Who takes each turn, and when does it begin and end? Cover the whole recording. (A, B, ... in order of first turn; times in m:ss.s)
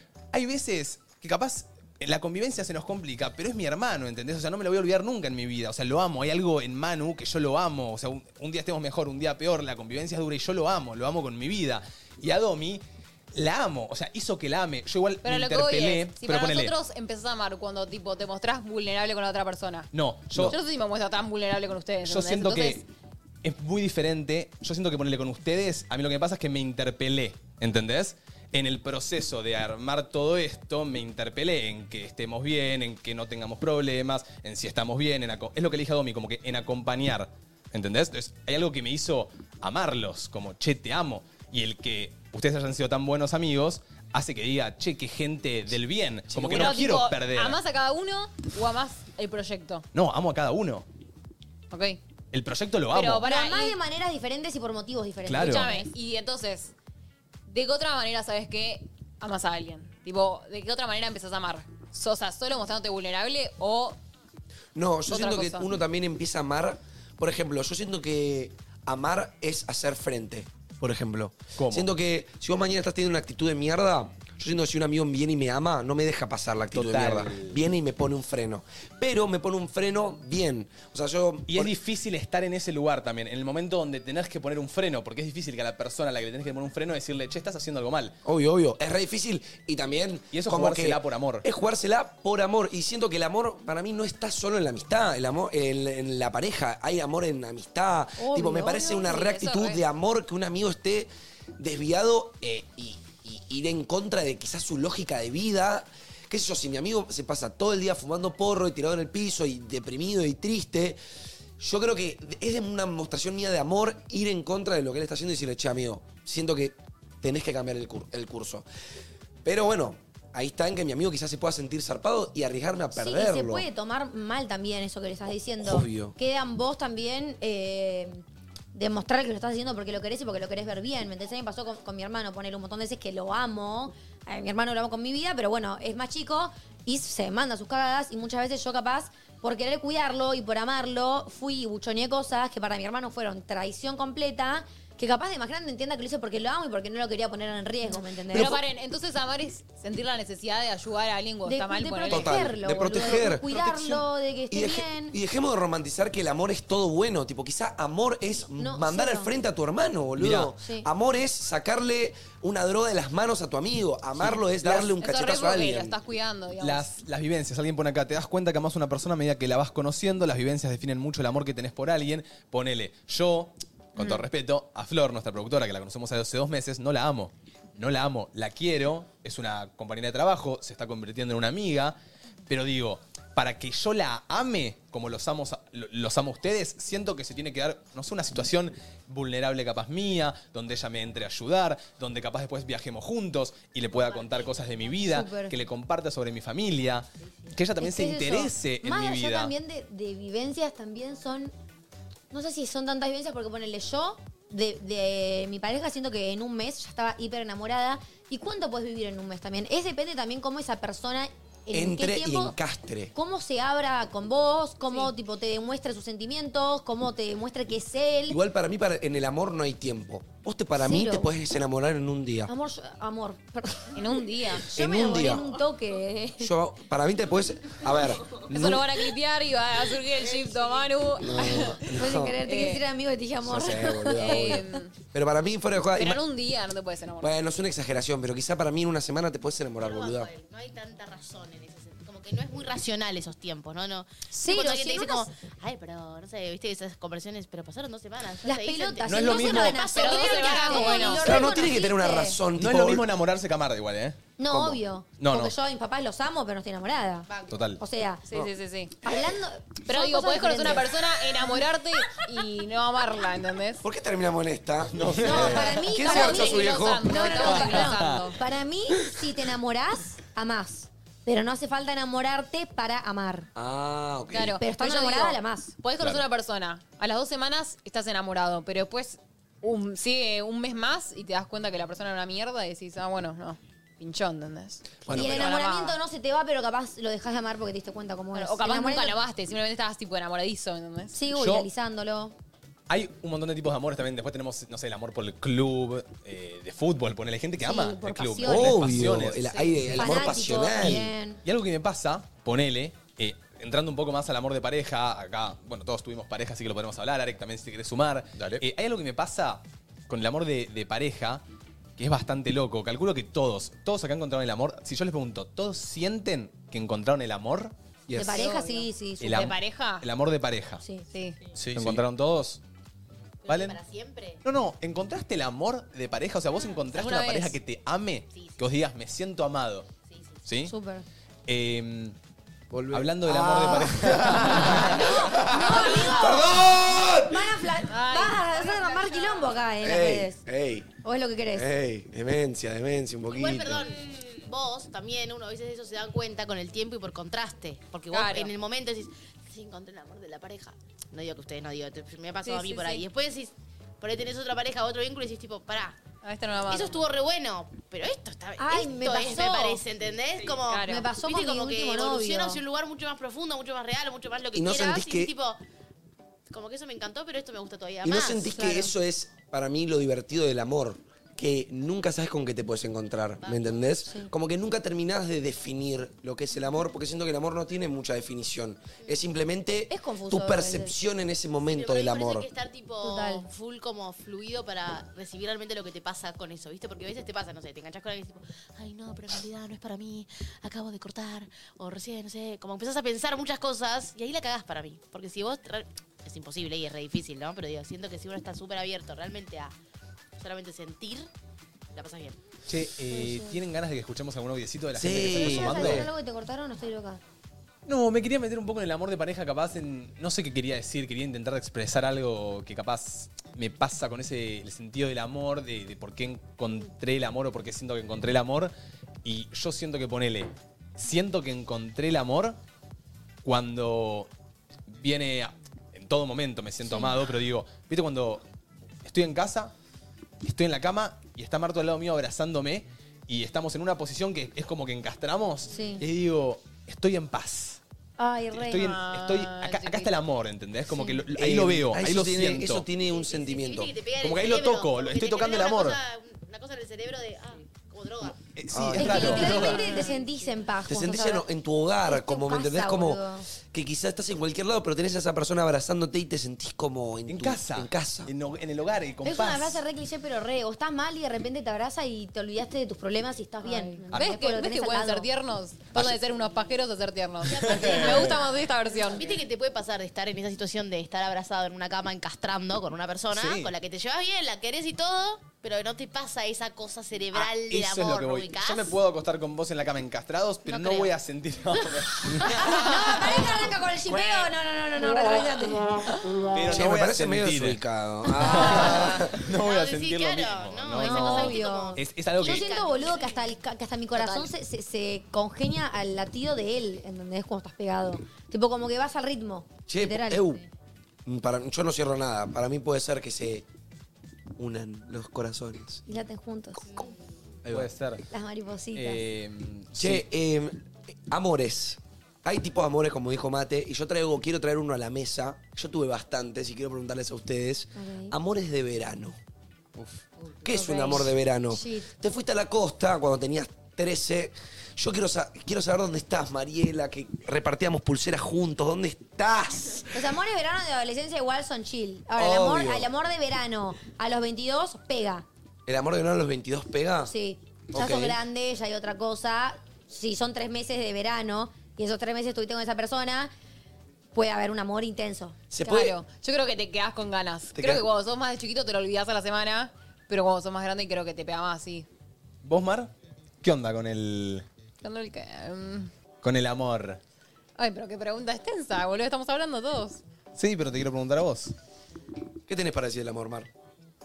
0:00.3-0:16.8 A
0:15.2-0:22.8 B
0:19.9-0:20.6 A
0:22.0-0:22.8 A
0:23.4-0:47.6 A
0:46.3-0:46.8 C
0:46.4-0:49.9 B
0:49.9-0:50.9 A
0:51.7-0:52.0 B
0:52.3-0:53.3 A
0:52.9-0:53.8 B
0:53.2-0:55.9 D
0:55.3-0:55.7 A
0:55.3-0:56.7 B
0:57.5-1:04.0 B
1:04.8-1:21.7 C
1:05.1-1:05.7 B
1:11.6-1:11.9 A
1:16.7-1:17.6 A
1:21.5-1:28.2 A
1:28.2-1:51.0 C
1:30.3-1:31.4 A
1:38.2-1:39.1 D
1:38.8-1:39.8 B
1:51.6-1:58.6 C
1:59.4-2:03.7 C
2:03.0-2:28.6 D
2:05.6-2:06.2 C
2:28.3-2:32.4 B
2:28.3-2:28.6 C
2:31.4-2:35.2 D
2:32.1-2:34.0 C
2:34.5-2:45.9 C
2:38.6-2:39.3 D
2:40.2-2:40.5 A
2:40.6-2:40.9 D
2:44.2-2:44.9 A
2:45.0-2:46.9 B
2:46.6-3:02.0 A
3:02.5-3:19.5 A
3:14.0-3:14.9 E
3:15.1-3:15.6 D
3:17.8-3:21.5 D
3:22.3-3:32.6 D
3:31.7-3:33.1 C
3:33.1-3:38.4 D
3:38.3-3:42.5 C
3:40.8-3:41.3 D
3:42.5-3:44.1 D
3:43.9-3:44.7 B
3:44.6-3:46.5 D
3:44.7-3:45.5 C
3:46.4-3:48.9 C
3:48.4-3:51.9 B
3:51.2-3:52.4 C
3:51.9-3:54.6 D
3:52.4-3:52.8 B
3:53.4-3:56.2 C
3:54.2-3:54.9 B
3:56.0-3:57.4 B
3:57.2-4:00.3 C
3:59.8-4:11.3 E
4:04.3-4:05.3 D
4:08.4-4:12.4 D
4:09.0-4:09.9 A
4:09.8-4:11.5 B
4:11.2-4:13.1 C
4:12.5-4:15.6 A
4:14.4-4:18.3 D
4:17.5-4:17.8 A
4:18.3-4:19.0 B
4:19.0-4:21.1 D
4:19.9-4:23.8 B
4:23.8-4:27.3 C
4:24.9-4:25.9 A
4:25.2-4:33.5 D
4:26.0-4:28.4 B
4:27.4-4:28.2 A
4:33.6-4:34.6 C
4:34.3-4:46.0 B
4:34.6-4:35.7 D
4:45.0-4:45.5 C
4:45.1-4:49.2 D
4:48.3-4:51.2 B
4:51.1-4:52.4 D
4:51.3-4:51.7 A
4:52.9-4:59.6 A
4:57.6-4:58.9 D
4:58.4-5:01.1 C
4:59.4-5:00.3 B
5:00.0-5:01.4 D
5:00.8-5:11.4 A
5:12.0-5:18.4 A
5:18.1-5:19.5 D
5:18.2-5:20.1 B
5:19.2-5:20.8 A
5:20.8-5:21.1 D
5:21.1-5:21.4 B
5:21.6-5:22.6 A
5:21.6-5:21.9 C
5:23.4-5:24.4 E
5:23.5-5:23.8 A
5:24.4-5:29.9 A
5:26.9-5:27.6 B
5:28.3-5:28.7 E
5:30.1-5:30.5 E
5:30.5-5:30.7 A
5:30.6-5:31.1 D
5:31.5-5:32.2 A
5:32.7-5:37.5 C
5:32.9-5:35.0 A
5:34.8-5:40.4 D
5:37.9-5:39.4 B
5:39.8-5:40.9 C
5:41.0-5:41.7 D
5:41.5-5:43.9 C
5:43.3-5:56.0 E
5:48.1-5:48.5 B
5:52.4-5:53.1 B
5:56.2-5:57.0 B
5:56.7-6:05.6 E
5:58.6-5:59.8 D
6:00.7-6:01.1 B
6:00.8-6:02.6 D
6:04.6-6:05.3 C
6:06.5-6:08.9 E
6:08.0-6:22.5 C
6:13.4-6:13.8 E
6:14.0-6:14.3 D
6:19.9-6:21.0 D
6:21.7-6:39.8 E
6:23.0-6:23.5 D
6:40.4-6:41.3 E
6:41.9-6:42.4 E
6:42.7-6:46.1 A
6:43.1-6:43.6 D
6:45.0-6:46.1 C
6:45.3-6:47.2 D
6:47.9-6:58.7 A
6:59.2-7:02.6 A
7:03.4-7:04.3 A
7:04.9-7:08.4 A
7:06.9-7:07.1 D
7:09.0-7:09.7 A
7:10.4-7:17.8 A
7:15.7-7:16.0 D
7:18.2-7:19.0 D
7:18.5-7:22.9 A
7:18.8-7:20.1 B
7:20.9-7:21.2 D
7:21.4-7:23.9 C
7:23.0-7:28.4 E
7:24.2-7:26.0 A
7:28.5-7:29.9 A
7:28.7-7:29.5 C
7:29.0-7:31.5 D
7:30.9-7:38.3 C
7:32.0-7:33.5 D
7:37.3-7:39.8 A
7:39.2-7:45.3 D
7:43.6-7:49.4 B
7:47.5-7:59.0 E
7:47.5-7:48.4 A
7:53.3-7:53.7 A
7:57.4-8:02.8 A
8:00.7-8:01.1 D
8:02.5-8:05.9 D
8:06.5-8:07.8 A
8:06.7-8:09.4 C
8:08.4-8:12.7 A
8:09.5-8:13.3 E
8:11.0-8:20.6 D
8:19.9-8:20.6 C
8:21.3-8:23.7 C
8:24.6-8:26.0 C
8:26.1-8:27.0 D
8:27.6-8:27.9 C
8:27.7-8:28.2 A
8:28.3-8:29.2 D
8:28.9-8:30.2 A
8:30.0-8:39.4 C
8:38.0-8:38.4 D
8:40.6-8:50.2 C
8:40.6-8:42.1 D
8:50.1-8:55.5 D
8:52.4-8:53.1 C
8:55.9-8:57.3 C
8:57.2-9:03.5 D
8:57.9-8:58.4 C
9:04.3-9:05.6 D
9:05.7-9:06.2 C
9:05.8-9:12.1 B
9:07.8-9:08.0 C
9:12.6-9:13.1 A
9:13.6-9:14.6 A
9:15.0-9:16.1 B
9:16.4-9:17.2 A
9:17.8-9:20.2 B
9:20.6-9:21.7 A
9:22.7-9:23.7 C